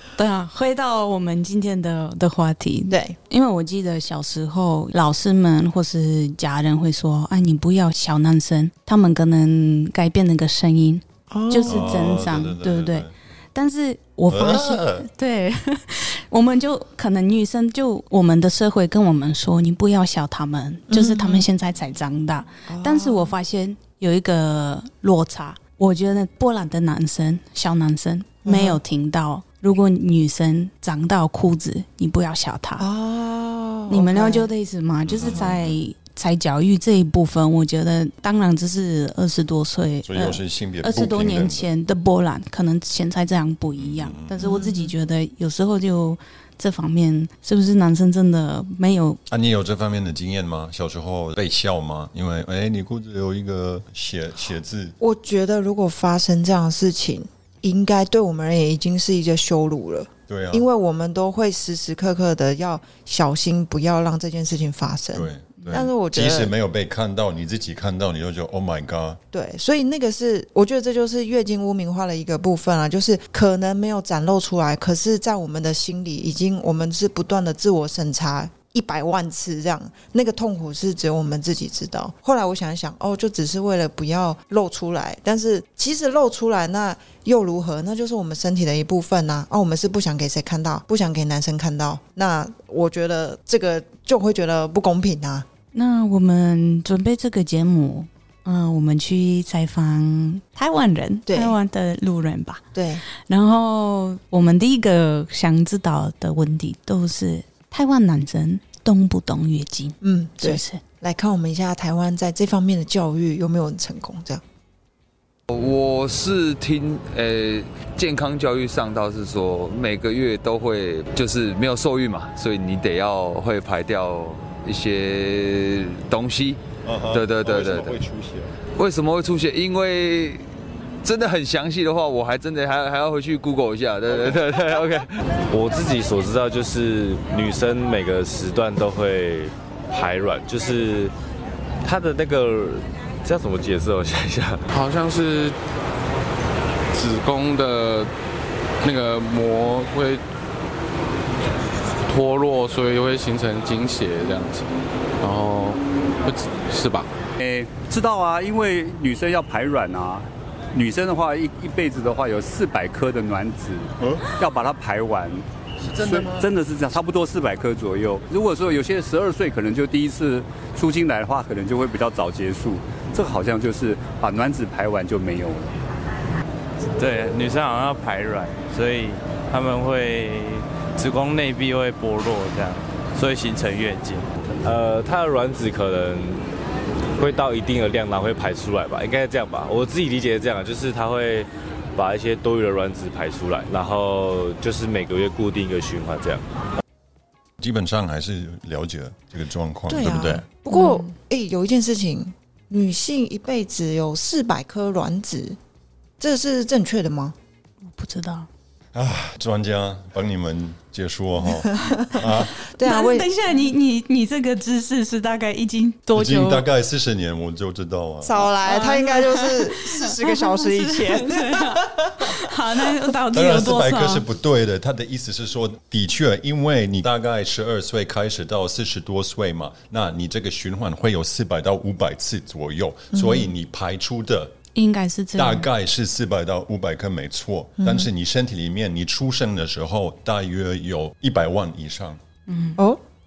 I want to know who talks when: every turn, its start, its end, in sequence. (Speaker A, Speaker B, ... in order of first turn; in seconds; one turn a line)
Speaker A: 0.1-32.9
Speaker B: 2.9-3.2
Speaker B: 11.3-12.2
Speaker C: 11.6-13.1
Speaker C: 14.3-15.1
Speaker B: 20.9-21.5
Speaker B: 22.7-23.4
Speaker B: 28.4-28.8
Speaker B: 32.8-34.5
Speaker A: 33.9-49.2
Speaker C: 35.1-35.7
Speaker B: 35.3-35.6
Speaker C: 40.1-41.7
Speaker C: 43.8-44.6
Speaker B: 44.4-44.9
Speaker C: 49.3-55.0
Speaker B: 55.0-66.5
Speaker C: 60.3-60.6
Speaker C: 65.1-69.2
Speaker B: 69.3-95.5
Speaker A: 95.7-110.8
Speaker B: 101.3-101.6
Speaker B: 102.7-103.0
Speaker B: 110.0-114.4
Speaker D: 115.5-128.0
Speaker C: 126.8-128.6
Speaker D: 128.8-130.5
Speaker D: 131.0-135.1
Speaker E: 135.5-141.1
Speaker E: 141.8-144.6
Speaker F: 144.7-145.6
Speaker F: 146.9-148.1
Speaker F: 148.8-150.2
Speaker F: 152.1-154.7
Speaker F: 155.2-157.1
Speaker G: 157.4-165.4
Speaker C: 164.0-164.3
Speaker C: 165.8-166.5
Speaker G: 166.0-175.7
Speaker H: 176.9-184.3
Speaker E: 184.6-186.5
Speaker E: 187.2-196.4
Speaker C: 197.6-200.4
Speaker B: 199.9-205.6
Speaker A: 200.7-201.1
Speaker B: 206.2-207.4
Speaker A: 207.9-208.5
Speaker C: 208.9-212.6
Speaker B: 211.5-213.3
Speaker A: 212.8-216.7
Speaker C: 216.2-218.5
Speaker B: 218.2-222.4
Speaker A: 218.7-224.2
Speaker C: 223.3-234.5
Speaker B: 233.1-233.5
Speaker A: 234.8-235.7
Speaker C: 235.3-242.2
Speaker B: 237.8-238.1
Speaker A: 242.5-242.8
Speaker B: 242.8-243.0